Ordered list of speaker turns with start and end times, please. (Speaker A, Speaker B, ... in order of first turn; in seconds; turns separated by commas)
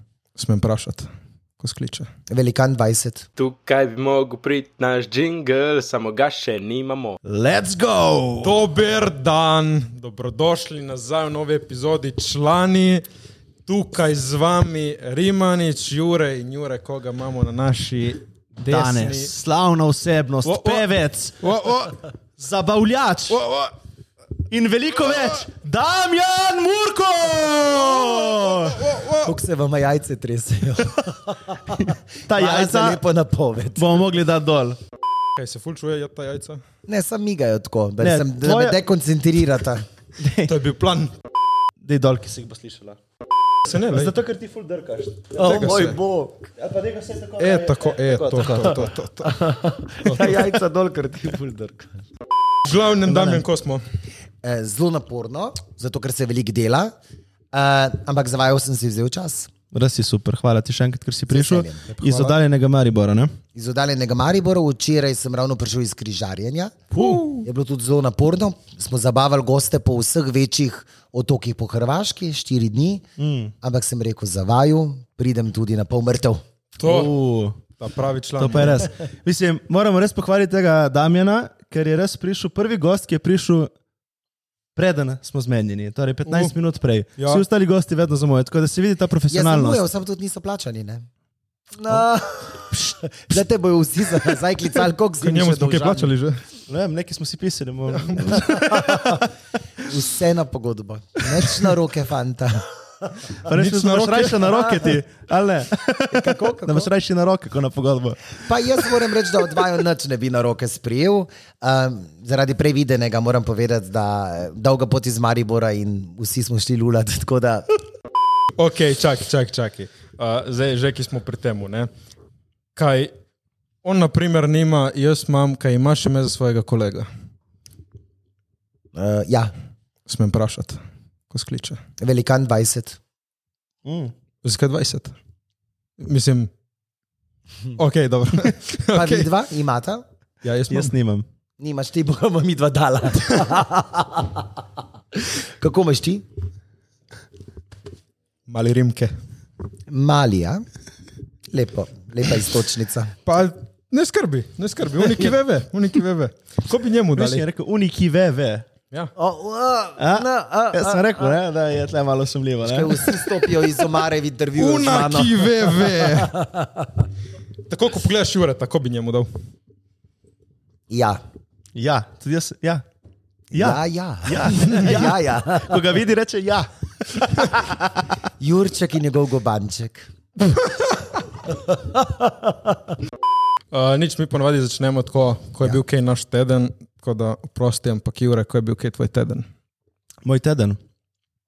Speaker A: 0.4-1.1, Speaker A: 1.6-2.1, Speaker B: 2.3-3.3, Speaker C: 3.4-7.2, Speaker D: 7.2-8.6, Speaker A: 8.4-13.0, Speaker A: 13.7-19.3, Speaker D: 18.7-21.4, Speaker A: 20.4-22.0, Speaker D: 22.4-23.4, Speaker A: 23.3-23.7, Speaker D: 24.5-28.8, Speaker A: 27.7-29.3, Speaker B: 29.2-34.1, Speaker D: 32.2-33.0, Speaker D: 33.8-34.8, Speaker A: 35.4-36.6, Speaker B: 36.9-39.9, Speaker D: 38.0-38.8, Speaker D: 40.2-40.5, Speaker A: 40.4-41.1, Speaker D: 41.8-43.0, Speaker A: 43.7-44.1, Speaker D: 43.9-46.0, Speaker B: 45.3-46.5, Speaker A: 45.4-46.0, Speaker D: 46.6-48.9, Speaker A: 47.4-49.4, Speaker B: 49.2-52.0, Speaker A: 50.0-50.4, Speaker A: 52.6-53.8, Speaker B: 53.0-53.5, Speaker B: 54.4-56.9, Speaker B: 57.5-59.5, Speaker D: 59.7-63.4, Speaker B: 61.3-62.4, Speaker B: 63.5-73.1, Speaker A: 67.0-67.4, Speaker D: 73.2-73.5, Speaker B: 73.6-76.4, Speaker A: 76.8-77.1, Speaker D: 76.8-77.6, Speaker A: 77.8-78.9, Speaker D: 78.4-83.7, Speaker D: 84.8-89.8, Speaker A: 86.3-86.5, Speaker A: 87.2-87.5, Speaker B: 89.3-91.1, Speaker B: 91.7-96.1, Speaker A: 95.2-96.4, Speaker D: 96.7-99.3, Speaker A: 98.0-98.9, Speaker B: 98.7-99.0, Speaker B: 99.8-103.1, Speaker A: 103.5-104.5, Speaker D: 103.5-109.0, Speaker B: 104.5-105.0, Speaker B: 106.0-106.9, Speaker B: 108.4-117.7, Speaker A: 118.6-121.9, Speaker A: 122.8-123.1, Speaker A: 123.8-127.1, Speaker B: 128.9-129.5, Speaker A: 130.1-131.8, Speaker B: 132.0-133.0, Speaker D: 133.8-134.1, Speaker A: 134.4-135.2, Speaker A: 136.0-136.5, Speaker A: 137.8-139.3, Speaker B: 138.9-140.0, Speaker A: 140.4-140.9, Speaker D: 140.7-141.2, Speaker B: 141.6-144.4, Speaker B: 145.2-146.2, Speaker A: 148.5-149.1, Speaker B: 149.9-150.7, Speaker B: 151.5-153.1, Speaker A: 153.3-157.5, Speaker D: 157.2-158.7, Speaker B: 159.2-161.4, Speaker D: 160.0-163.3, Speaker B: 162.6-166.9, Speaker A: 164.6-166.3, Speaker A: 167.7-169.3, Speaker B: 170.9-171.2, Speaker D: 171.8-172.8, Speaker B: 173.5-175.9, Speaker D: 173.5-177.8, Speaker B: 178.4-180.1, Speaker A: 183.7-189.5, Speaker D: 190.2-190.8